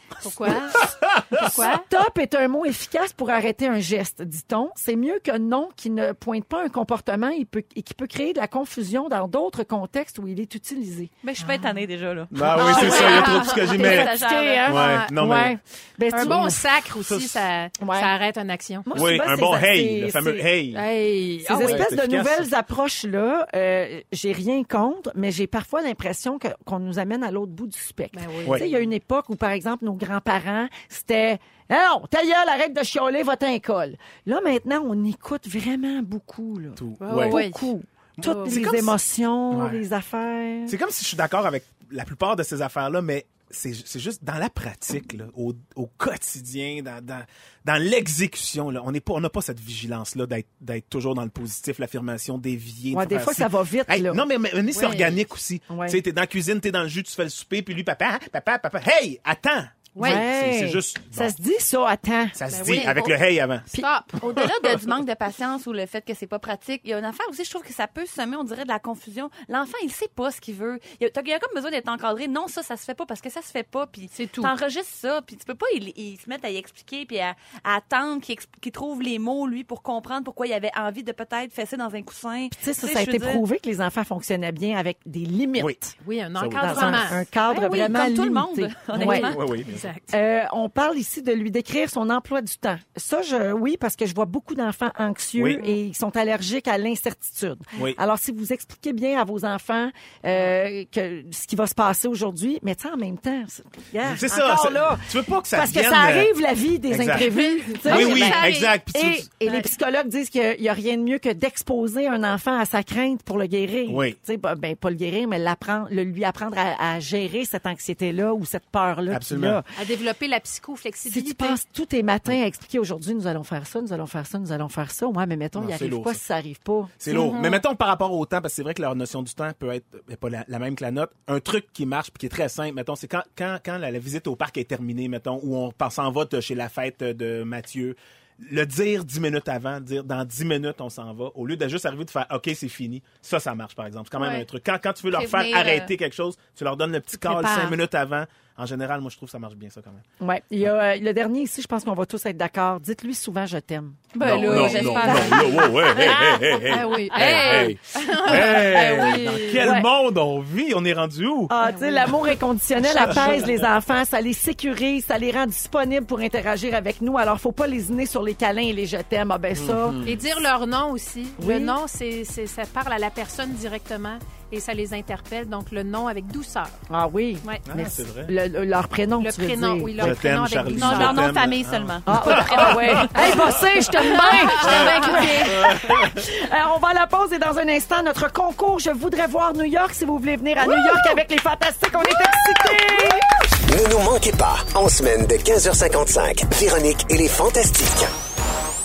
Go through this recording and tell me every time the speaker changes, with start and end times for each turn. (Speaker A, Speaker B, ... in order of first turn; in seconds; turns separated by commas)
Speaker A: 0.2-1.9, Speaker B: 0.5-1.4, Speaker C: 1.4-11.1, Speaker D: 11.2-14.7, Speaker A: 11.4-11.8, Speaker B: 12.3-14.1, Speaker A: 12.5-15.1, Speaker B: 14.6-15.6, Speaker C: 15.0-16.8, Speaker A: 16.1-18.9, Speaker B: 17.0-17.4, Speaker C: 17.8-18.1, Speaker C: 18.9-20.5, Speaker B: 18.9-20.8, Speaker A: 20.7-21.9, Speaker C: 21.4-40.8, Speaker B: 21.6-22.4, Speaker A: 28.1-28.8, Speaker B: 36.8-37.4, Speaker A: 37.0-37.7, Speaker B: 38.2-38.9, Speaker A: 38.2-38.6, Speaker B: 39.5-39.8, Speaker B: 40.7-61.3, Speaker C: 52.9-54.2, Speaker A: 54.7-55.2, Speaker C: 55.7-56.0, Speaker A: 59.9-60.2, Speaker C: 60.0-62.4, Speaker B: 62.3-64.5, Speaker A: 62.5-63.1, Speaker A: 63.7-64.2, Speaker D: 64.2-83.4, Speaker A: 74.1-74.5, Speaker C: 82.5-85.9, Speaker A: 86.0-87.2, Speaker B: 86.4-87.2, Speaker C: 86.6-89.4, Speaker D: 87.4-89.4, Speaker B: 89.0-90.0, Speaker A: 89.7-90.0, Speaker C: 90.1-119.7, Speaker B: 95.4-95.7, Speaker B: 104.0-106.3, Speaker B: 106.9-107.3, Speaker A: 107.1-108.8, Speaker B: 107.8-109.3, Speaker B: 113.9-114.2, Speaker B: 119.1-119.6, Speaker A: 119.7-121.6, Speaker C: 121.0-126.9, Speaker B: 125.5-126.2, Speaker B: 127.0-150.0, Speaker A: 127.1-127.6, Speaker A: 144.2-144.4, Speaker D: 145.1-145.9, Speaker A: 147.2-147.8, Speaker C: 150.2-155.2, Speaker D: 154.1-156.3, Speaker B: 154.2-161.6, Speaker A: 154.3-159.6, Speaker D: 157.1-157.7, Speaker C: 159.6-159.9, Speaker C: 161.5-170.1, Speaker A: 161.6-162.3, Speaker B: 162.8-163.6, Speaker B: 169.6-170.2, Speaker A: 170.0-176.7, Speaker C: 171.4-171.8, Speaker C: 176.9-180.2, Speaker B: 177.7-178.3, Speaker A: 179.2-181.4, Speaker B: 180.0-183.4, Speaker D: 180.8-183.1, Speaker C: 182.1-193.3, Speaker A: 184.0-185.8, Speaker B: 184.6-186.1, Speaker E: 193.6-198.1